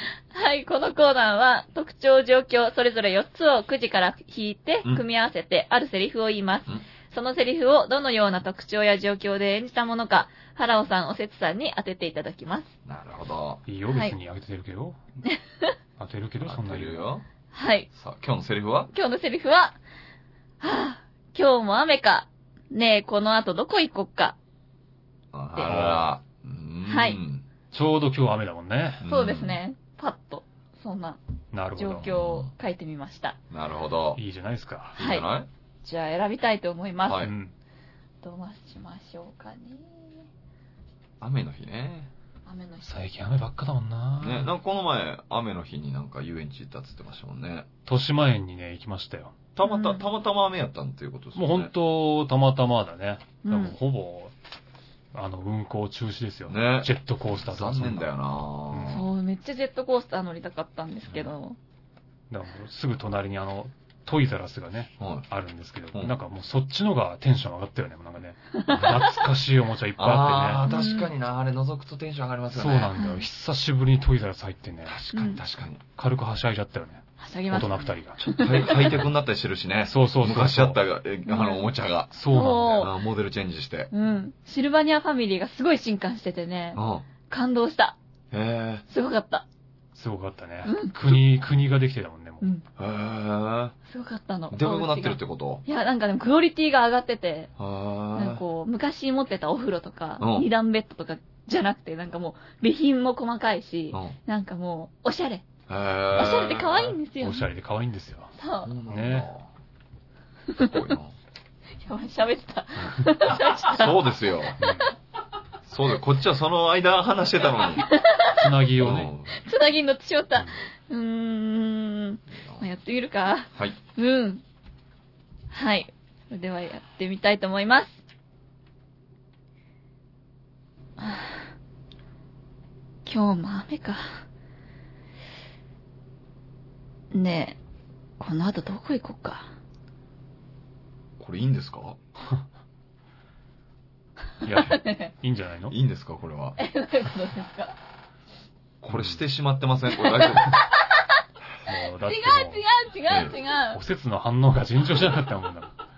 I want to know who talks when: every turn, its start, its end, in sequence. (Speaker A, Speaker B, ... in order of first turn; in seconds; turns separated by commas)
Speaker A: 0.3-12.7, Speaker B: 12.8-13.6, Speaker C: 13.7-15.0, Speaker A: 13.9-14.1, Speaker A: 15.2-15.7, Speaker C: 16.0-17.1, Speaker B: 16.4-17.2, Speaker A: 17.5-17.9, Speaker B: 17.9-18.9, Speaker A: 18.9-19.8, Speaker A: 20.6-24.4, Speaker B: 25.3-27.4, Speaker C: 25.6-26.1, Speaker A: 26.9-27.2, Speaker C: 27.7-29.0, Speaker B: 29.0-29.6, Speaker A: 29.0-31.2, Speaker C: 31.5-32.1, Speaker A: 31.8-33.4, Speaker B: 32.0-32.5, Speaker B: 33.5-34.2, Speaker C: 34.1-35.0, Speaker B: 35.0-35.5, Speaker A: 35.0-35.2, Speaker A: 35.8-37.3, Speaker B: 37.0-37.3, Speaker C: 37.2-37.5, Speaker A: 38.2-40.2, Speaker B: 41.2-42.1, Speaker A: 42.5-43.0, Speaker C: 42.8-44.5, Speaker B: 44.2-47.7, Speaker C: 47.9-49.3, Speaker B: 49.5-51.7, Speaker A: 49.6-50.0, Speaker C: 51.4-54.3, Speaker A: 53.4-53.8, Speaker C: 55.1-58.1, Speaker B: 56.5-59.1, Speaker C: 58.7-59.0, Speaker A: 58.9-61.6, Speaker C: 62.3-70.7, Speaker B: 65.0-65.2, Speaker B: 70.0-72.9, Speaker A: 70.7-71.1, Speaker C: 72.5-75.0, Speaker A: 73.0-73.2, Speaker B: 74.8-75.8, Speaker A: 75.1-75.4, Speaker C: 76.0-78.2, Speaker A: 77.2-78.9, Speaker B: 78.2-83.9, Speaker C: 79.8-80.8, Speaker A: 81.2-81.7, Speaker C: 82.1-82.9, Speaker A: 82.3-82.9, Speaker A: 83.9-88.0, Speaker B: 86.7-87.1, Speaker B: 88.3-88.8, Speaker A: 88.9-89.5, Speaker C: 89.9-92.5, Speaker A: 90.6-90.9, Speaker A: 92.4-92.7, Speaker B: 92.8-93.7, Speaker A: 93.9-97.5, Speaker B: 94.5-95.6, Speaker B: 97.6-98.4, Speaker A: 98.1-105.5, Speaker B: 100.2-100.5, Speaker B: 105.7-106.9, Speaker A: 106.1-107.5, Speaker C: 107.2-108.3, Speaker A: 108.3-108.7, Speaker B: 108.6-109.5, Speaker C: 108.8-109.3, Speaker B: 110.5-111.1, Speaker A: 111.8-114.7, Speaker B: 112.8-114.6, Speaker C: 114.6-114.9, Speaker B: 115.7-117.9, Speaker A: 117.8-118.5, Speaker C: 118.3-119.1, Speaker B: 118.8-119.4, Speaker A: 119.3-124.4, Speaker B: 122.3-122.7, Speaker A: 125.5-128.0, Speaker A: 131.0-131.5, Speaker A: 133.1-134.2, Speaker A: 137.1-137.6, Speaker A: 138.2-139.5, Speaker B: 141.2-142.0, Speaker C: 144.4-145.8, Speaker A: 144.6-145.1, Speaker B: 145.7-146.6, Speaker A: 146.6-147.7, Speaker C: 148.8-149.2, Speaker B: 148.9-150.6, Speaker A: 150.0-150.8, Speaker C: 151.7-152.6, Speaker A: 152.0-153.8, Speaker B: 153.1-153.3, Speaker C: 153.7-155.7